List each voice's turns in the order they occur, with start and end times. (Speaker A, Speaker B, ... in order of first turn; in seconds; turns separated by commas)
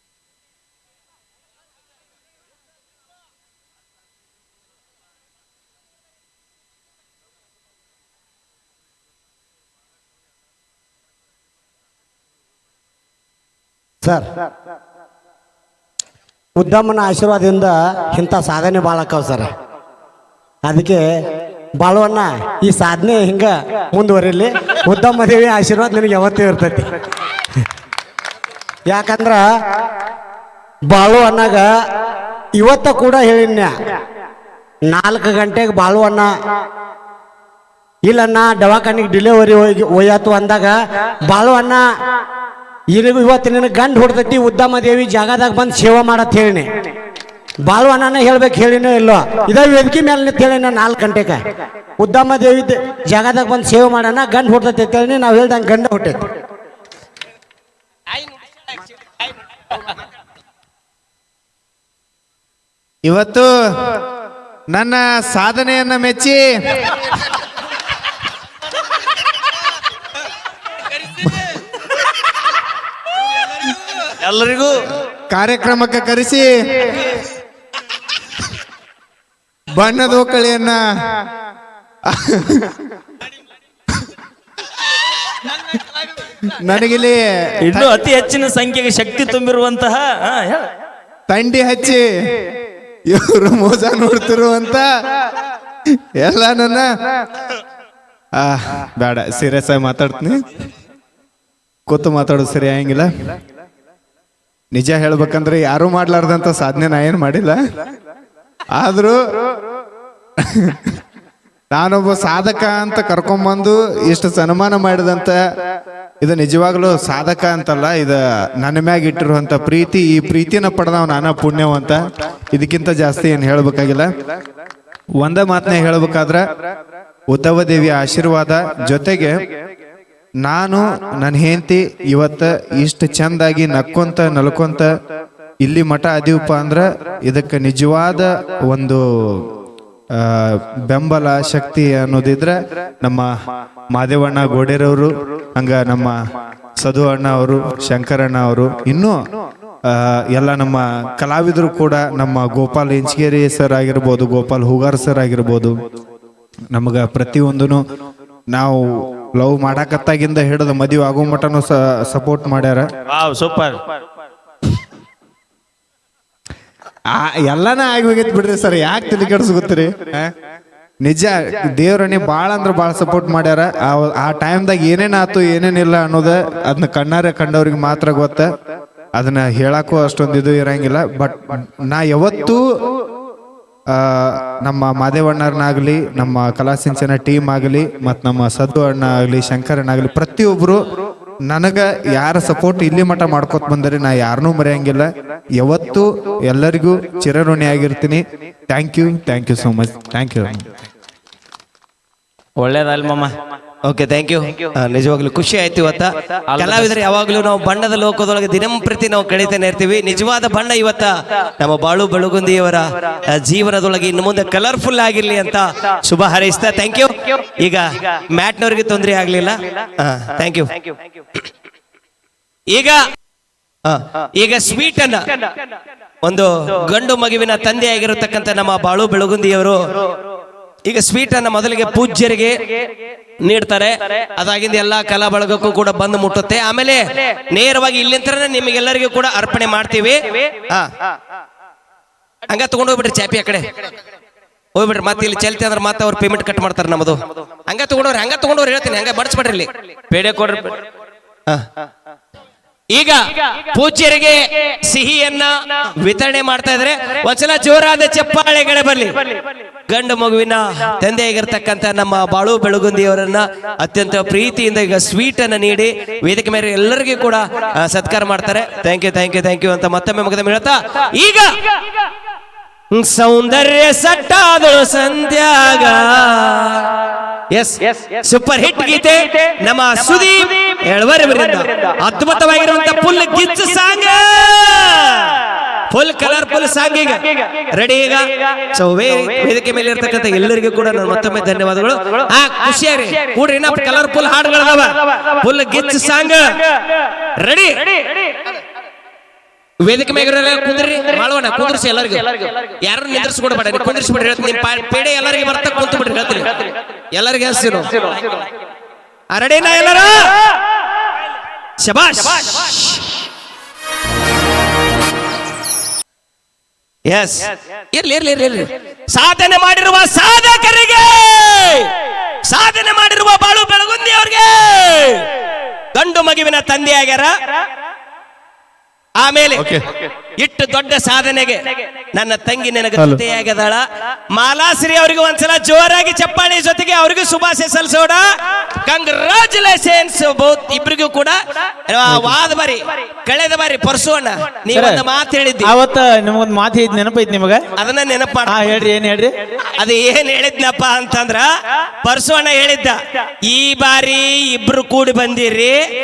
Speaker A: 16.6-19.5, Speaker A: 20.6-21.1, Speaker A: 21.8-26.9, Speaker A: 28.9-29.4, Speaker A: 30.9-31.7, Speaker A: 32.5-33.7, Speaker A: 34.9-36.3, Speaker A: 38.0-41.9, Speaker A: 42.9-46.9, Speaker A: 47.6-51.4, Speaker A: 52.0-56.2, Speaker B: 63.0-64.0, Speaker B: 64.7-67.0, Speaker C: 74.2-74.8, Speaker B: 75.3-77.1, Speaker B: 79.7-81.2, Speaker B: 82.1-82.8, Speaker B: 86.4-87.9, Speaker C: 87.6-90.7, Speaker B: 91.3-92.6, Speaker B: 93.1-95.3, Speaker B: 96.2-96.9, Speaker B: 98.4-100.4, Speaker B: 101.9-103.1, Speaker B: 104.7-107.6, Speaker B: 108.7-109.2, Speaker B: 110.5-111.0, Speaker B: 111.7-115.4, Speaker B: 116.2-122.0, Speaker B: 122.5-124.1, Speaker B: 125.2-126.4, Speaker B: 127.3-129.4, Speaker B: 130.4-134.9, Speaker B: 135.6-139.5, Speaker B: 140.2-143.3, Speaker B: 143.9-146.2, Speaker B: 146.8-149.2, Speaker B: 149.9-155.7, Speaker B: 156.7-157.8, Speaker B: 158.5-162.9, Speaker C: 163.1-163.8, Speaker B: 167.1-170.3, Speaker B: 171.0-178.5, Speaker B: 179.2-182.6, Speaker B: 183.9-190.8, Speaker B: 191.4-200.6, Speaker C: 202.6-203.3, Speaker D: 203.8-220.9, Speaker C: 206.5-206.9, Speaker D: 222.7-223.0, Speaker D: 223.9-225.2, Speaker D: 226.2-229.8, Speaker D: 230.9-232.8, Speaker D: 233.4-240.9, Speaker D: 242.5-243.7, Speaker D: 244.7-249.7, Speaker C: 250.1-250.8, Speaker D: 252.9-259.1, Speaker D: 259.9-271.5, Speaker D: 272.9-276.9, Speaker D: 277.5-296.5, Speaker D: 297.2-297.9, Speaker D: 299.8-308.1, Speaker D: 309.3-310.4, Speaker D: 311.8-313.1, Speaker D: 317.1-321.9, Speaker D: 322.5-325.2, Speaker D: 325.9-327.3, Speaker D: 329.2-329.7, Speaker D: 330.4-331.6, Speaker D: 332.1-345.7, Speaker E: 344.7-345.0, Speaker E: 345.6-347.6, Speaker D: 347.8-348.9, Speaker E: 348.4-349.3, Speaker D: 349.7-351.5, Speaker D: 352.0-355.8